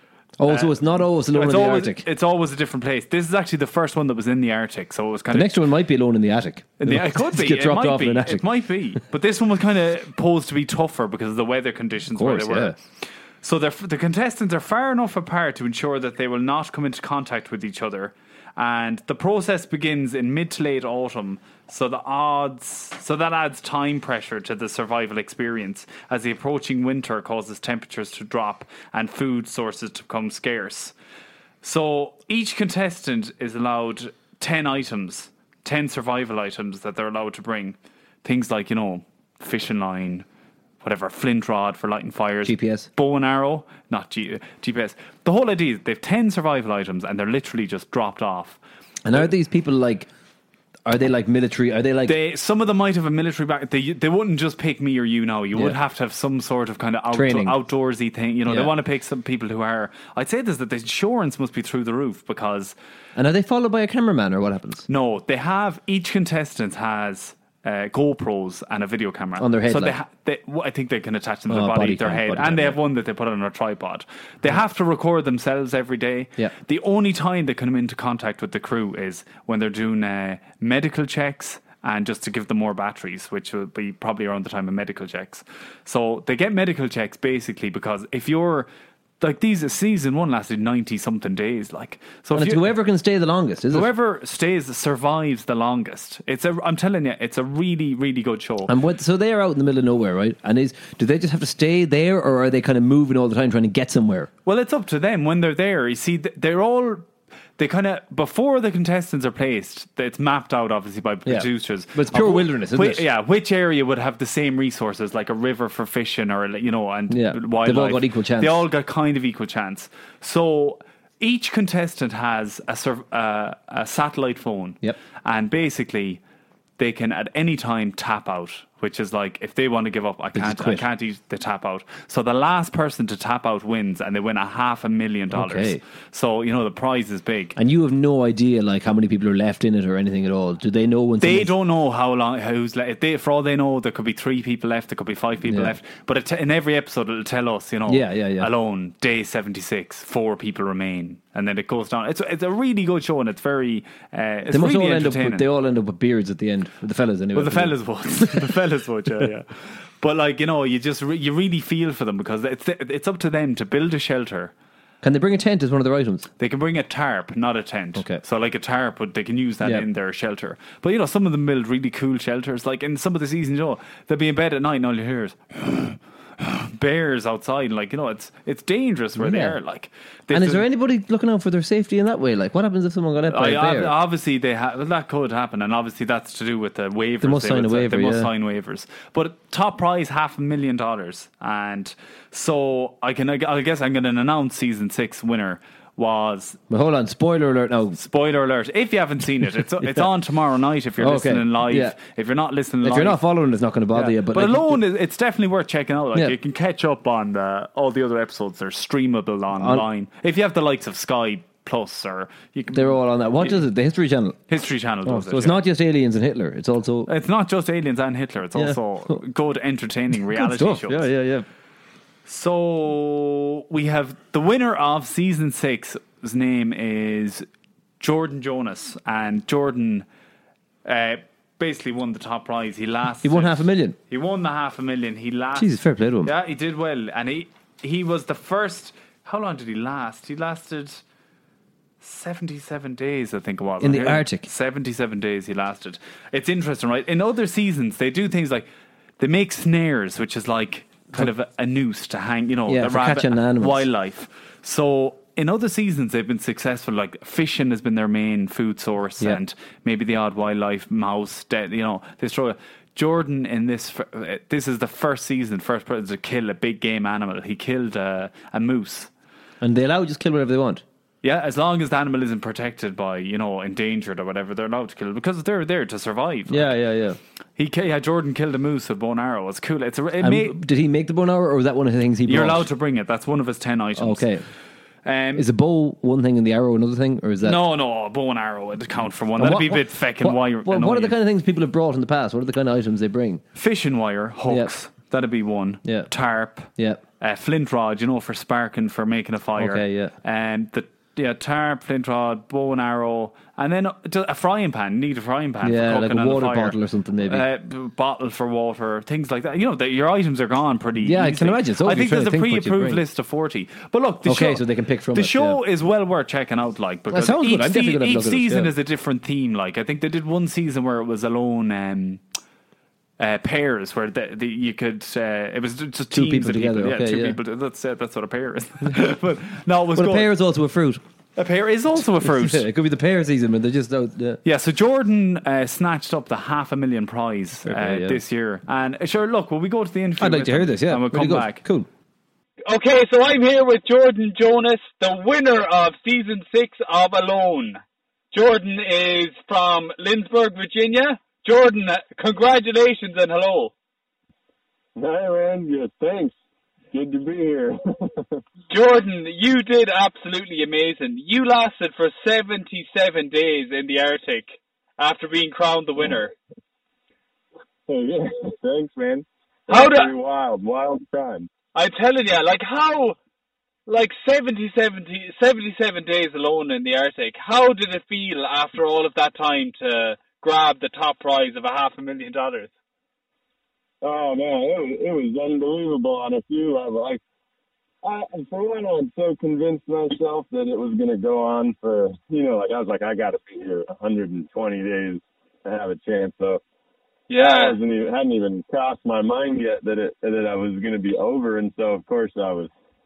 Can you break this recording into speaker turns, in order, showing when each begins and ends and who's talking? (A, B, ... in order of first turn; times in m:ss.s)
0:00.4-0:02.0 A
0:00.5-0:05.6 B
0:05.3-0:08.5 A
0:06.8-0:12.8 B
0:12.1-0:12.8 A
0:13.4-0:30.9 B
0:31.6-0:40.2 B
0:40.8-0:48.6 B
0:42.4-0:42.9 A
0:49.0-0:50.1 A
0:50.9-0:52.1 A
0:52.1-1:02.7 B
0:57.1-0:57.6 A
0:58.5-0:58.7 A
1:03.2-1:04.9 A
1:04.9-1:28.7 B
1:09.4-1:10.0 A
1:11.5-1:12.8 A
1:29.2-1:32.6 B
1:32.3-1:33.9 A
1:33.7-1:38.7 B
1:38.7-1:44.3 A
1:44.4-2:06.2 B
1:51.2-1:53.0 A
1:57.1-1:58.6 A
2:06.8-2:17.5 B
2:10.3-2:10.8 A
2:15.3-2:15.8 A
2:17.6-2:21.5 A
2:21.2-2:35.5 B
2:25.4-2:25.8 A
2:27.9-2:28.5 A
2:34.5-2:38.6 A
2:37.4-2:44.5 B
2:45.0-2:46.3 A
2:46.4-3:00.6 B
2:48.0-2:48.2 A
2:59.2-2:59.6 A
3:00.3-3:03.9 A
3:03.3-3:16.6 B
3:07.2-3:08.3 A
3:16.7-3:18.0 A
3:18.0-3:23.2 B
3:19.8-3:20.1 A
3:21.0-3:22.0 A
3:22.8-3:24.8 A
3:23.9-3:33.6 B
3:29.6-3:29.8 A
3:32.7-3:34.4 A
3:34.5-3:35.6 B
3:35.0-3:37.1 A
3:37.1-3:41.1 B
3:38.5-3:39.2 A
3:40.3-3:41.5 A
3:42.2-3:47.5 B
3:48.0-3:50.0 B
3:50.8-3:55.7 B
3:53.2-3:54.0 A
3:55.6-3:56.3 A
3:56.2-4:01.0 B
4:02.0-4:08.7 B
4:03.8-4:04.5 A
4:09.2-4:29.1 B
4:12.7-4:13.8 A
4:29.6-4:30.8 A
4:31.2-4:36.7 B
4:36.5-4:37.2 A
4:37.6-4:40.6 B
4:40.2-4:42.7 A
4:42.2-4:44.3 B
4:44.0-4:44.4 A
4:45.0-4:45.5 B
4:45.4-4:47.6 A
4:47.4-4:51.2 B
4:49.4-4:53.4 A
4:53.5-5:22.2 B
4:56.8-4:57.0 A
4:59.6-5:00.1 A
5:05.6-5:07.4 A
5:11.0-5:13.0 A
5:14.2-5:15.6 A
5:17.1-5:18.7 A
5:23.2-5:30.3 B
5:26.1-5:27.4 A
5:30.0-5:31.0 A
5:31.4-5:32.7 B
5:32.2-5:34.4 A
5:34.4-5:41.6 B
5:37.6-5:38.2 A
5:40.2-5:41.9 A
5:42.7-5:47.8 C
5:48.3-5:53.7 C
5:55.0-5:56.3 D
5:56.9-5:58.4 D
5:58.7-6:06.3 C
6:07.9-6:11.5 D
6:09.7-6:10.1 C
6:11.7-6:13.2 C
6:13.8-6:22.7 C
6:24.0-6:27.2 D
6:28.0-6:36.6 D
6:37.3-6:37.8 C
6:37.4-6:42.7 D